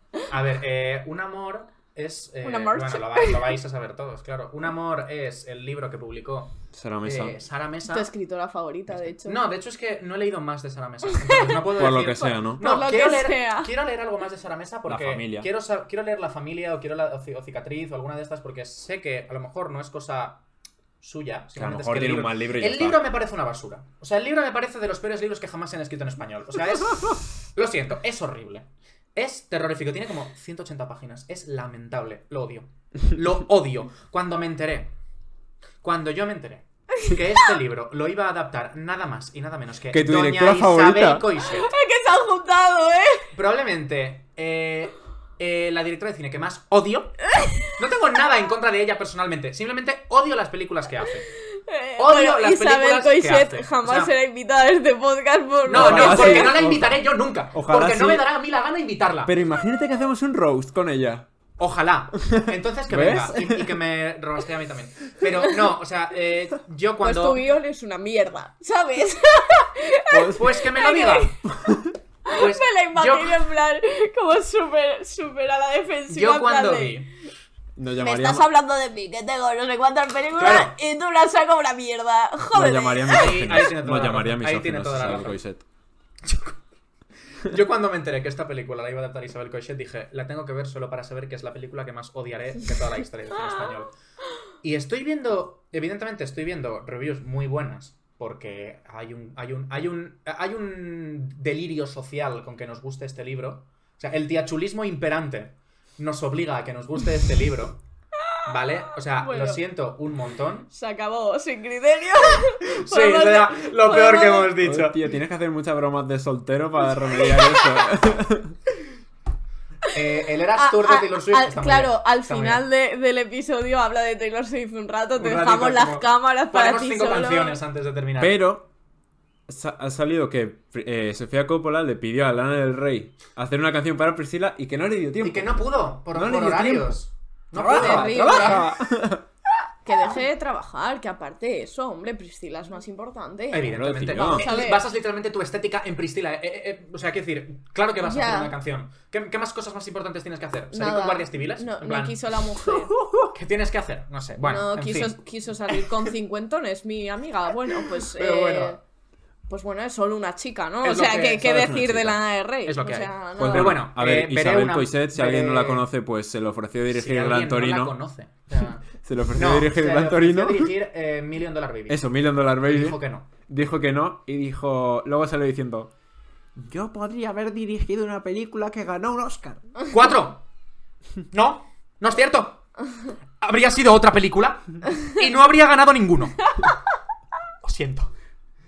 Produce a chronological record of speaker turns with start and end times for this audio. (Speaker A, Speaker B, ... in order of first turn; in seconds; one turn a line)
Speaker A: 0.3-8.1
Speaker B: 2.4-3.5
Speaker C: 6.7-7.4
Speaker B: 7.9-9.4
Speaker A: 8.9-20.4
Speaker B: 11.1-11.6
Speaker C: 11.7-12.6
Speaker B: 12.6-13.7
Speaker C: 14.9-15.5
Speaker A: 21.0-34.9
Speaker C: 21.5-23.0
Speaker A: 35.8-41.7
Speaker C: 39.9-41.3
Speaker B: 41.5-43.3
Speaker A: 43.3-51.3
Speaker B: 47.3-47.8
Speaker B: 51.5-56.6
Speaker A: 52.0-54.1
Speaker A: 55.7-59.3
Speaker C: 55.7-57.0
Speaker C: 57.5-58.2
Speaker C: 59.2-61.3
Speaker A: 61.6-67.5
Speaker C: 62.2-63.8
Speaker B: 67.0-71.4
Speaker C: 70.1-70.4
Speaker A: 70.3-71.4
Speaker C: 71.5-71.9
Speaker A: 72.3-73.5
Speaker B: 72.3-77.1
Speaker A: 76.1-77.1
Speaker C: 77.8-78.5
Speaker B: 78.0-83.6
Speaker A: 80.3-80.8
Speaker C: 82.4-85.6
Speaker A: 83.1-85.4
Speaker A: 86.2-86.6
Speaker A: 87.4-93.9
Speaker A: 94.6-107.8
Speaker B: 108.3-109.6
Speaker A: 108.5-110.7
Speaker B: 110.7-114.5
Speaker A: 112.6-115.0
Speaker C: 114.6-118.6
Speaker B: 117.2-117.6
Speaker A: 119.9-122.7
Speaker B: 120.5-127.6
Speaker A: 125.2-128.4
Speaker C: 128.2-128.7
Speaker C: 129.5-137.0
Speaker A: 135.2-138.8
Speaker C: 137.5-139.3
Speaker B: 137.6-138.7
Speaker B: 139.8-144.8
Speaker A: 143.5-155.2
Speaker C: 143.7-144.5
Speaker B: 148.0-148.6
Speaker B: 150.7-152.9
Speaker B: 154.4-158.8
Speaker A: 155.7-156.0
Speaker A: 157.7-158.8
Speaker B: 159.5-163.8
Speaker A: 160.8-165.9
Speaker C: 161.8-162.1
Speaker C: 163.4-167.9
Speaker A: 166.9-173.3
Speaker C: 169.0-170.7
Speaker C: 171.9-175.9
Speaker C: 176.6-179.7
Speaker A: 179.9-180.4
Speaker A: 181.3-182.6
Speaker A: 183.4-186.6
Speaker A: 187.6-188.1